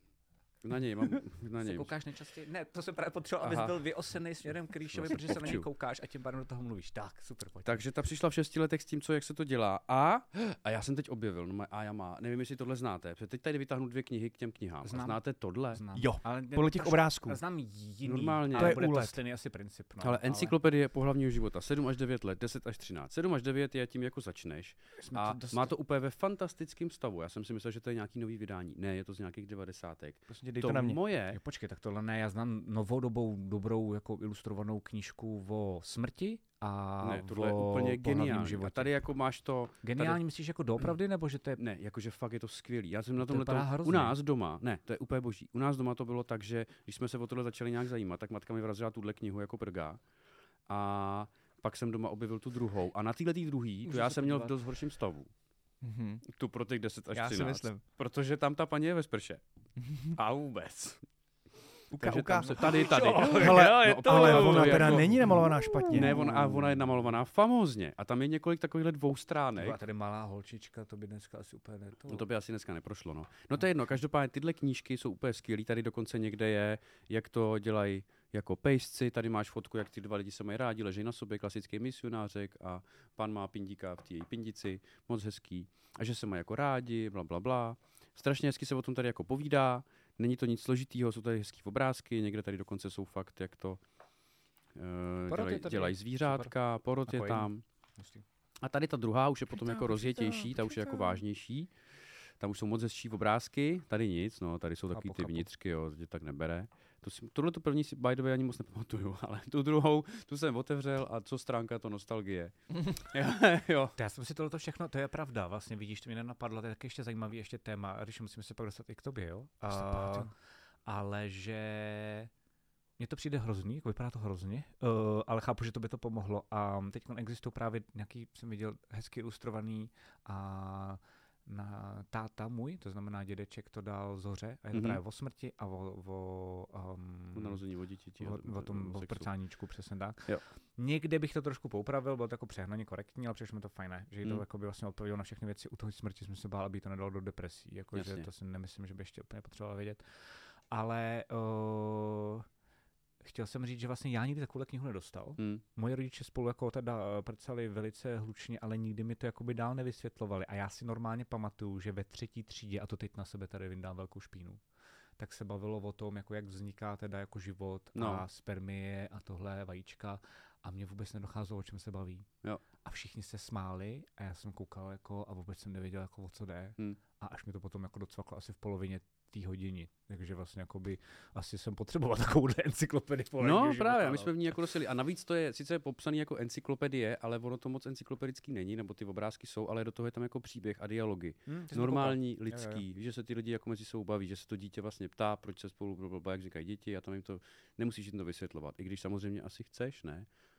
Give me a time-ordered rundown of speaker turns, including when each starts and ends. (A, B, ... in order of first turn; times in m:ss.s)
0:00.6-0:01.9 A
0:01.6-0:07.8 B
0:03.4-0:03.8 A
0:04.9-0:05.6 A
0:07.6-0:15.8 A
0:14.8-0:20.6 B
0:15.9-0:17.4 C
0:18.0-0:18.8 A
0:18.5-0:19.2 C
0:20.0-0:31.4 A
0:25.0-0:25.7 B
0:30.3-0:31.0 C
0:31.3-0:39.0 B
0:37.0-0:40.2 A
0:39.8-0:41.6 B
0:41.6-0:50.0 A
0:43.2-0:44.2 B
0:50.7-0:55.3 A
0:53.9-0:54.5 B
0:55.8-0:56.2 C
0:56.3-0:59.4 A
0:57.1-0:57.8 C
0:59.8-1:00.2 C
1:00.1-1:01.0 A
1:01.9-1:06.2 C
1:02.0-1:09.8 A
1:02.4-1:06.8 B
1:09.6-1:12.2 B
1:12.1-1:33.8 A
1:34.8-1:37.6 A
1:35.3-1:36.5 B
1:37.1-1:38.2 B
1:38.6-1:54.0 A
1:39.9-1:40.4 B
1:44.9-1:45.5 B
1:54.0-2:00.3 B
1:59.7-2:00.3 C
2:00.9-2:02.3 B
2:03.0-2:17.6 B
2:14.7-2:15.0 A
2:17.4-2:19.3 A
2:18.2-2:32.5 B
2:27.9-2:28.3 A
2:33.2-2:44.6 B
2:45.2-2:52.3 B
2:48.0-2:48.2 A
2:52.8-3:04.6 B
3:03.4-3:20.3 A
3:11.5-3:12.8 B